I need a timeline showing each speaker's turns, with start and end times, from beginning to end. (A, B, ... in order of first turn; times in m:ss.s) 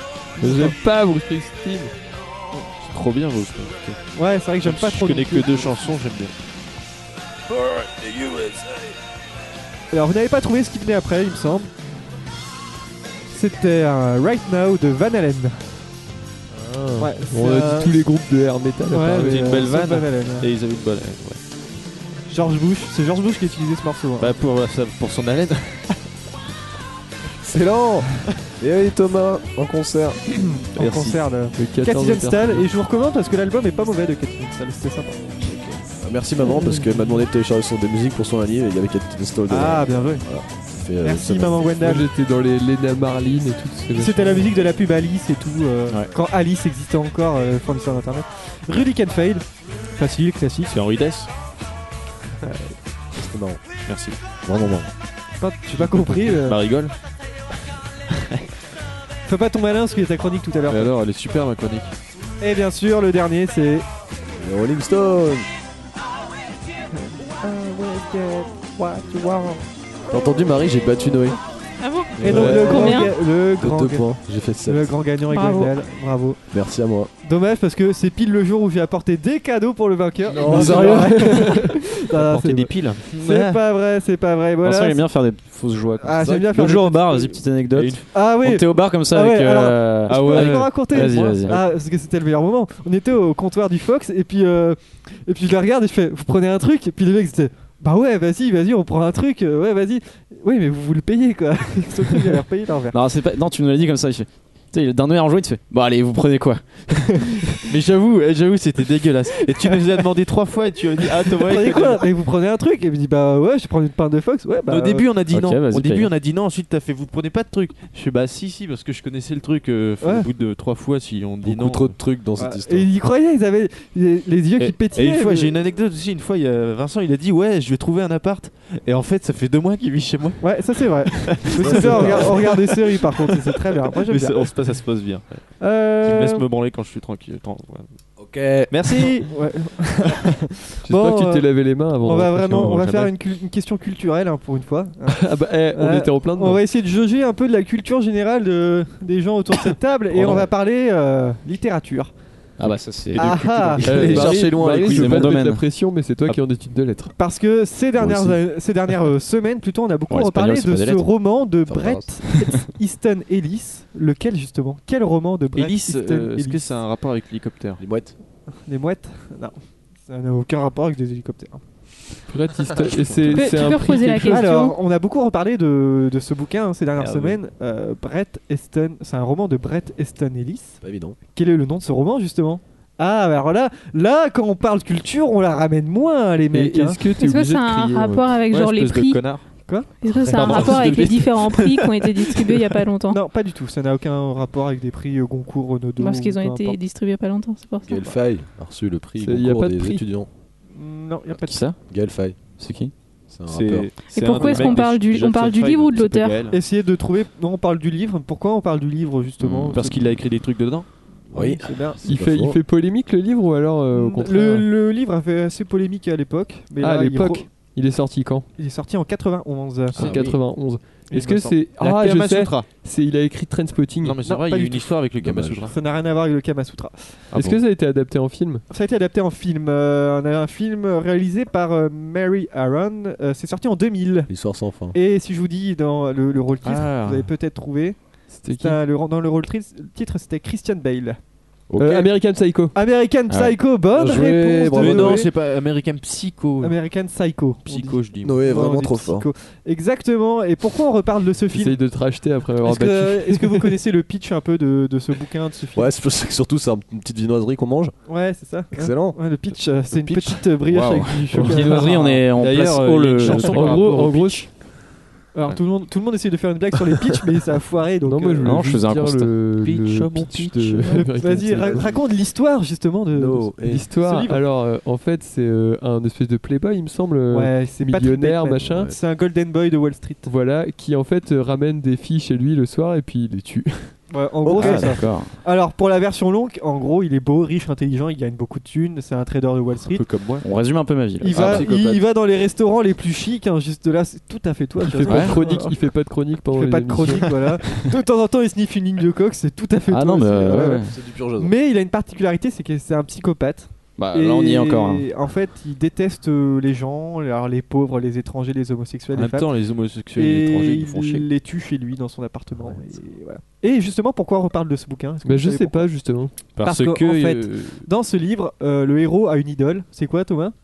0:00.4-0:00.8 A
0:00.4-0:01.9 B
0:02.7-0:04.0 C
0:04.1-0:05.9 A
0:04.6-0:06.3 C
0:07.5-0:08.8 D
0:09.9-0:11.7 A
0:13.3-0:15.9 A
0:16.5-0:19.5 B
0:17.0-0:17.9 A
0:18.9-0:20.5 A
0:19.1-0:21.4 C
0:22.3-0:24.4 A
0:24.2-0:26.0 C
0:27.4-0:30.2 D
0:30.3-0:35.2 A
0:30.8-0:31.2 C
0:31.5-0:32.6 B
0:35.4-0:41.7 D
0:36.8-0:37.1 B
0:39.5-0:40.3 A
0:41.0-0:42.1 A
0:41.8-0:44.5 B
0:43.9-0:50.8 A
0:50.7-0:51.3 C
0:52.4-0:52.8 A
0:53.2-0:53.6 D
0:53.8-0:54.2 C
0:54.4-0:54.9 D
0:55.4-0:56.6 A
0:55.7-0:56.9 C
0:59.2-1:00.9 A
1:00.7-1:01.9 C
1:02.4-1:03.8 A
1:04.4-1:05.5 D
1:06.9-1:09.6 A
1:10.1-1:11.4 D
1:11.8-1:13.1 E
1:12.2-1:15.0 D
1:12.2-1:16.5 A
1:12.2-1:12.7 C
1:15.3-1:15.7 E
1:16.5-1:17.1 D
1:17.2-1:25.1 A
1:20.3-1:21.6 D
1:20.5-1:21.0 C
1:22.2-1:23.6 C
1:22.4-1:22.7 F
1:24.6-1:31.6 F
1:26.0-1:27.4 A
1:26.2-1:26.7 D
1:27.7-1:28.1 C
1:28.1-1:43.0 A
1:30.1-1:31.6 C
1:42.9-1:47.6 F
1:47.7-1:52.1 C
1:51.0-1:55.1 A
1:54.6-2:02.0 C
1:55.3-1:56.1 F
2:00.0-2:00.3 A
2:01.4-2:02.9 D
2:02.4-2:05.6 A
2:04.6-2:18.0 C
2:10.4-2:14.6 A
2:11.6-2:12.4 D
2:15.6-2:16.4 A
2:18.2-2:18.8 D
2:18.7-2:19.3 C
2:19.0-2:32.1 A
2:20.8-2:22.8 B
2:22.6-2:23.1 C
2:25.1-2:26.6 B
2:32.6-2:35.6 F
2:33.1-2:34.3 A
2:33.8-2:34.3 C
2:33.8-2:37.1 B
2:33.8-2:35.4 D
2:37.2-2:46.7 A
2:38.0-2:38.4 D
2:40.1-2:41.1 F
2:41.7-2:42.1 D
2:45.5-2:47.8 C
2:47.8-2:48.1 D
2:48.6-2:51.6 A
2:52.3-2:54.4 B
2:53.3-3:00.8 A
2:53.3-2:54.8 E
2:57.0-2:57.4 C
3:00.8-3:01.2 D
3:01.3-3:07.0 A
3:06.5-3:08.3 B
3:07.2-3:09.2 E
3:08.5-3:09.5 C
3:09.7-3:11.1 A
3:10.0-3:13.2 E
3:10.2-3:12.4 C
3:13.1-3:16.8 A
3:16.0-3:18.1 E
3:17.8-3:20.3 D
3:19.2-3:20.0 B
3:20.7-3:21.6 A
3:21.4-3:21.8 F
3:21.9-3:22.4 D
3:22.6-3:22.9 F
3:23.3-3:23.9 D
3:23.4-3:26.6 C
3:24.1-3:26.4 E
3:26.5-3:30.1 A
3:29.4-3:29.8 F
3:29.7-3:30.9 C
3:31.3-3:32.0 A
3:31.3-3:32.6 D
3:32.0-3:34.7 B
3:33.9-3:37.5 A
3:36.8-3:38.5 B
3:38.6-3:40.1 A
3:39.9-3:44.2 B
3:40.0-3:40.3 F
3:41.1-3:42.7 C
3:44.0-3:45.7 C
3:44.2-3:44.9 A
3:45.2-3:45.7 D
3:45.7-3:47.3 A
3:47.3-3:47.6 C
3:47.3-3:48.6 B
3:48.7-3:54.3 A
3:54.3-3:55.0 D
3:54.9-3:58.0 A
3:56.6-3:57.3 C
3:58.3-3:58.8 B
3:58.6-4:01.2 A
4:01.8-4:02.7 B
4:02.7-4:05.3 A
4:03.3-4:03.6 F
4:03.9-4:05.3 D
4:04.7-4:06.8 C
4:06.6-4:11.9 A
4:07.6-4:08.5 C
4:08.2-4:09.3 D
4:11.5-4:13.7 B
4:12.6-4:15.9 A
4:15.7-4:17.9 D
4:18.1-4:22.2 A
4:18.7-4:19.2 D
4:20.6-4:23.8 F
4:21.3-4:21.8 B
4:22.3-4:24.5 C
4:23.2-4:24.5 B
4:25.3-4:28.7 A
4:28.0-4:31.9 B
4:28.4-4:29.5 F
4:29.5-4:31.0 C
4:30.9-4:34.4 A
4:33.1-4:33.9 D
4:33.6-4:38.9 B
4:37.3-4:40.3 A
4:38.6-4:39.0 D
4:40.2-4:44.0 B
4:44.1-4:50.2 A
4:44.4-4:45.0 D
4:44.5-4:45.4 F
4:49.8-4:50.5 C
4:50.4-4:51.9 F
4:51.2-5:15.9 A
4:51.2-4:52.0 D
4:54.9-4:57.4 B
4:55.0-4:55.5 F
4:59.8-5:01.0 F
5:00.4-5:01.5 D
5:03.9-5:05.1 F
5:09.1-5:11.3 C
5:15.2-5:16.3 B
5:16.6-5:17.8 C
5:16.6-5:20.5 A